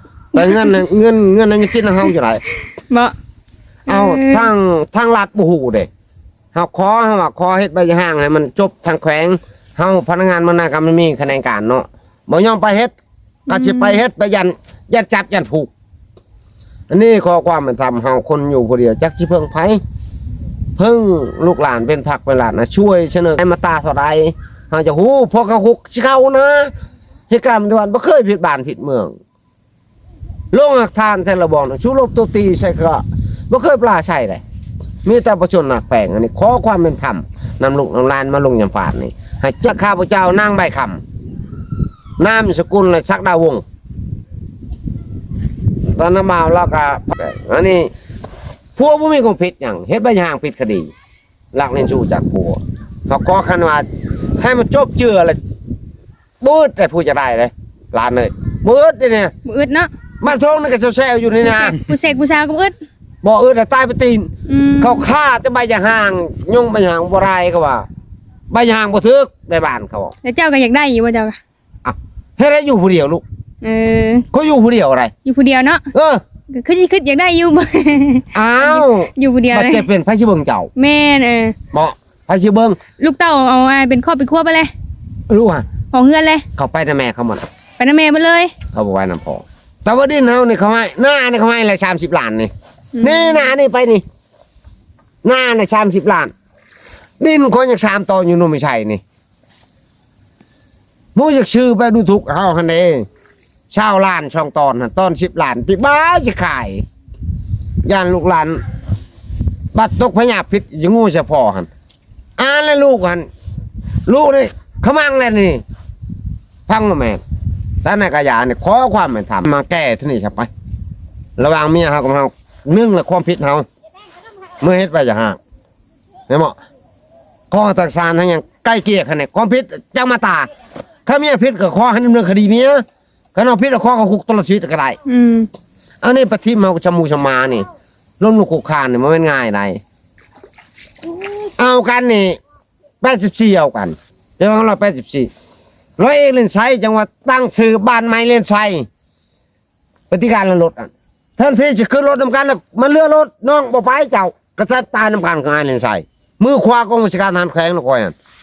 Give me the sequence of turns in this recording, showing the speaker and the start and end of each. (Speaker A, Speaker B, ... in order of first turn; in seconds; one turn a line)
Speaker A: 0.3-2.4
Speaker B: 0.4-0.8
Speaker B: 3.9-4.5
Speaker A: 3.9-5.9
Speaker A: 6.5-12.9
Speaker A: 13.5-15.7
Speaker B: 13.5-14.0
Speaker A: 16.9-19.8
Speaker A: 20.8-26.7
Speaker A: 27.3-29.1
Speaker A: 30.5-34.4
Speaker A: 35.0-41.0
Speaker A: 42.2-43.6
Speaker A: 45.9-47.9
Speaker A: 48.8-50.9
Speaker A: 51.5-53.9
Speaker A: 54.4-55.4
Speaker A: 56.4-59.3
Speaker B: 59.5-59.9
Speaker A: 60.2-61.8
Speaker B: 61.4-62.7
Speaker A: 63.2-67.8
Speaker B: 64.5-65.1
Speaker A: 68.5-70.1
Speaker B: 70.2-71.4
Speaker A: 71.8-73.2
Speaker B: 73.6-74.2
Speaker A: 74.3-75.1
Speaker B: 75.2-75.8
Speaker A: 75.9-76.2
Speaker B: 76.5-79.8
Speaker A: 78.3-80.7
Speaker B: 80.8-81.5
Speaker A: 81.7-82.8
Speaker B: 83.0-84.7
Speaker A: 85.3-85.7
Speaker B: 85.9-86.4
Speaker A: 86.5-87.5
Speaker B: 87.8-88.5
Speaker A: 88.7-92.5
Speaker B: 92.9-93.5
Speaker A: 93.0-94.0
Speaker A: 95.2-96.3
Speaker A: 97.2-99.0
Speaker A: 101.1-103.0
Speaker A: 103.7-106.8
Speaker A: 107.8-108.6
Speaker A: 109.7-111.7
Speaker A: 112.4-113.3
Speaker A: 114.1-115.6
Speaker A: 116.7-117.2
Speaker A: 117.8-120.5
Speaker A: 121.4-123.7
Speaker A: 124.6-125.4
Speaker A: 126.3-126.5
Speaker A: 127.5-130.5
Speaker A: 131.1-132.8
Speaker A: 133.3-135.0
Speaker B: 135.1-135.5
Speaker A: 136.0-137.7
Speaker A: 138.2-139.8
Speaker A: 141.6-142.4
Speaker A: 143.0-145.3
Speaker A: 146.0-148.8
Speaker A: 150.1-158.1